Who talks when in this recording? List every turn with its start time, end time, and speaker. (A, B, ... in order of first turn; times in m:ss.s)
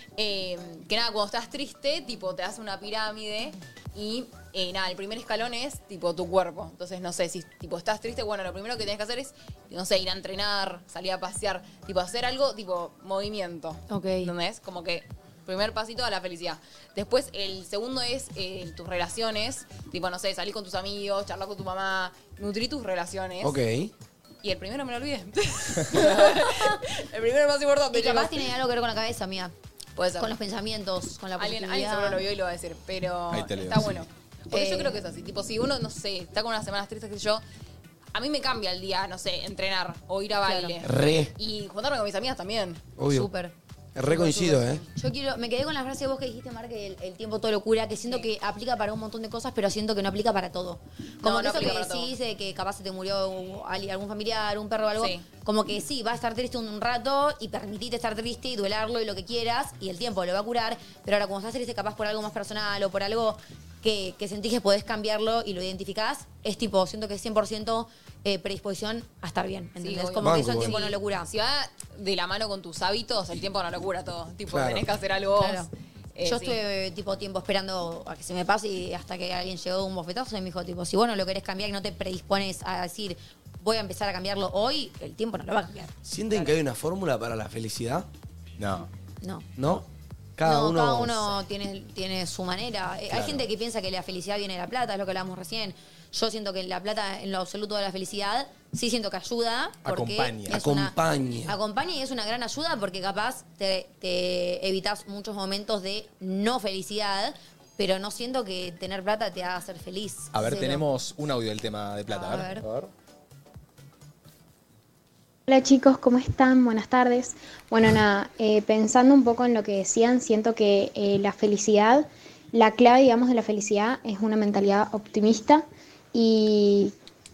0:00.2-0:23.6 A
0:13.9-0:14.3 B
0:23.4-0:23.9 C
0:24.4-0:28.5 A
0:27.9-0:29.5 B
0:30.0-0:30.3 A
0:30.2-0:32.2 B
0:31.4-0:37.4 A
0:33.3-0:34.0 D
0:34.5-0:35.0 B
0:38.1-0:42.8 A
0:40.4-0:40.8 B
0:40.8-0:41.3 C
0:43.0-0:43.3 C
0:43.1-0:43.5 B
0:43.9-0:44.8 C
0:44.0-1:11.3 B
0:51.2-0:52.1 A
0:55.0-0:55.2 A
1:09.8-1:16.6 A
1:10.2-1:10.8 C
1:14.5-1:14.8 C
1:15.4-1:15.7 B
1:16.2-1:25.9 B
1:26.0-1:28.0 C
1:28.6-1:28.9 D
1:29.2-1:29.5 B
1:29.6-1:29.8 C
1:30.4-1:31.3 C
1:30.4-1:50.8 B
1:33.1-1:33.4 D
1:39.8-1:40.6 D
1:40.5-1:41.5 C
1:50.3-1:52.5 D
1:52.1-1:52.6 B
1:55.5-2:06.9 E